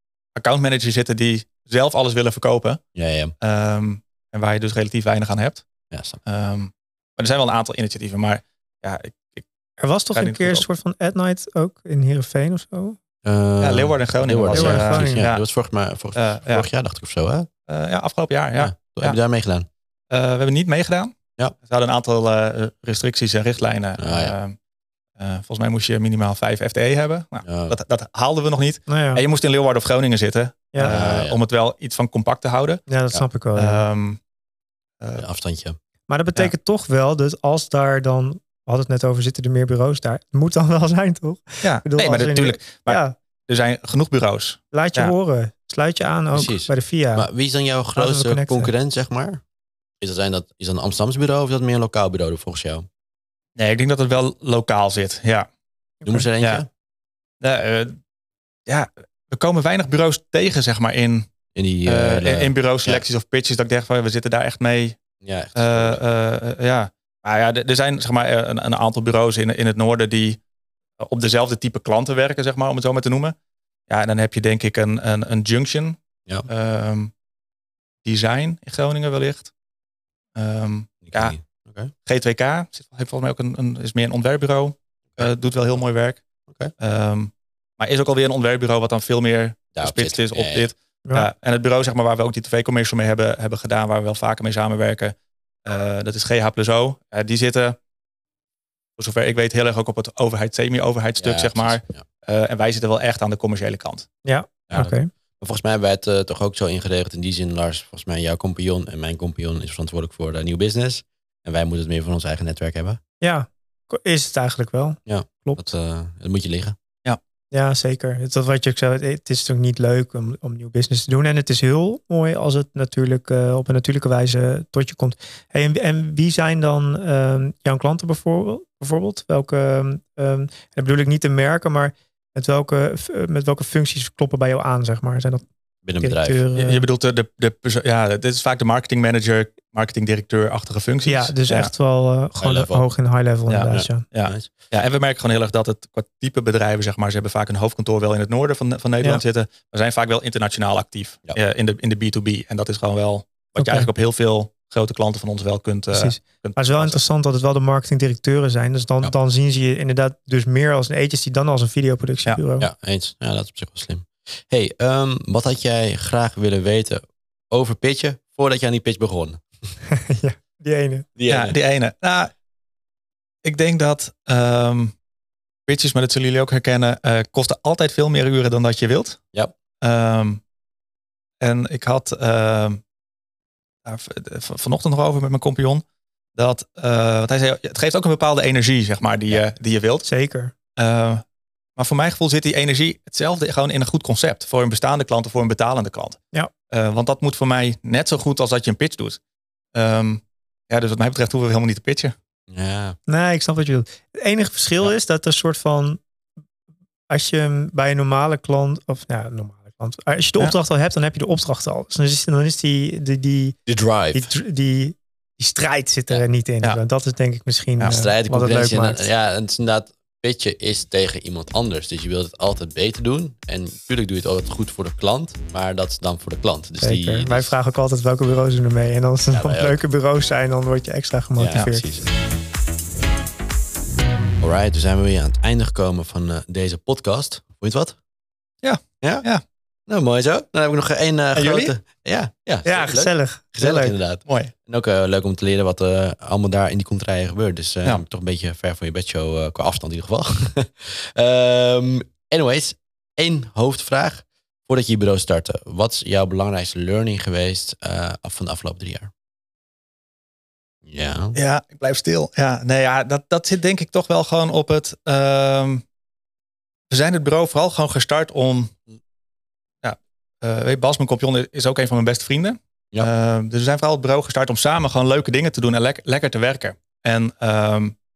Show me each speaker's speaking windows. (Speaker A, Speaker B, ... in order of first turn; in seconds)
Speaker A: 0.3-2.8, 3.4-5.7, 6.2-9.4, 10.1-10.6, 13.6-15.4, 16.1-16.7, 17.7-19.2, 20.1-24.5, 25.2-32.8, 33.5-34.2, 41.6-45.1, 53.5-55.5, 57.4-58.0, 58.7-61.3, 61.9-65.0, 65.5-70.4, 71.0-73.3, 73.9-77.1, 78.0-79.5, 80.3-81.3, 82.0-86.2, 86.8-97.8, 99.0-104.1, 136.6-141.7, 143.5-156.9, 171.3-172.3, 173.4-174.9, 175.7-179.2, 179.8-180.4, 181.4-182.8, 183.8-185.8, 186.3-190.1, 190.8-191.2, 191.8-196.2, 196.7-199.2, 199.7-202.1, 238.6-239.4, 241.3-241.7, 244.3-244.5, 261.3-265.8, 266.9-268.7, 269.8-277.9
Speaker B: 2.9-3.3, 5.9-6.2, 13.2-17.5, 18.6-19.7, 24.0-24.4, 27.4-27.8, 30.8-31.4, 35.1-35.8, 46.3-49.4, 50.0-52.9, 56.0-56.7, 61.5-63.0, 65.2-66.0, 81.0-81.9, 89.8-90.7, 101.2-102.0, 104.7-113.0, 115.0-116.8, 135.8-136.4, 142.4-142.8, 143.7-144.5, 162.6-169.4, 171.2-171.6, 202.5-203.0, 213.7-214.3, 217.9-227.5, 229.3-229.8, 231.4-232.1, 234.4-238.0, 239.0-239.2, 239.9-259.1, 260.8-261.4
Speaker C: 9.8-13.0, 14.5-15.3, 28.9-29.2, 32.9-33.8, 36.1-43.1, 44.7-47.3, 47.9-48.7, 56.0-56.3, 104.2-105.1, 113.2-115.7, 117.5-135.4, 136.0-136.8, 141.1-144.0, 153.6-153.9, 155.9-162.7, 169.9-171.1, 190.0-190.5, 203.1-206.0, 207.1-213.6, 214.1-219.0, 226.8-231.8, 242.6-244.0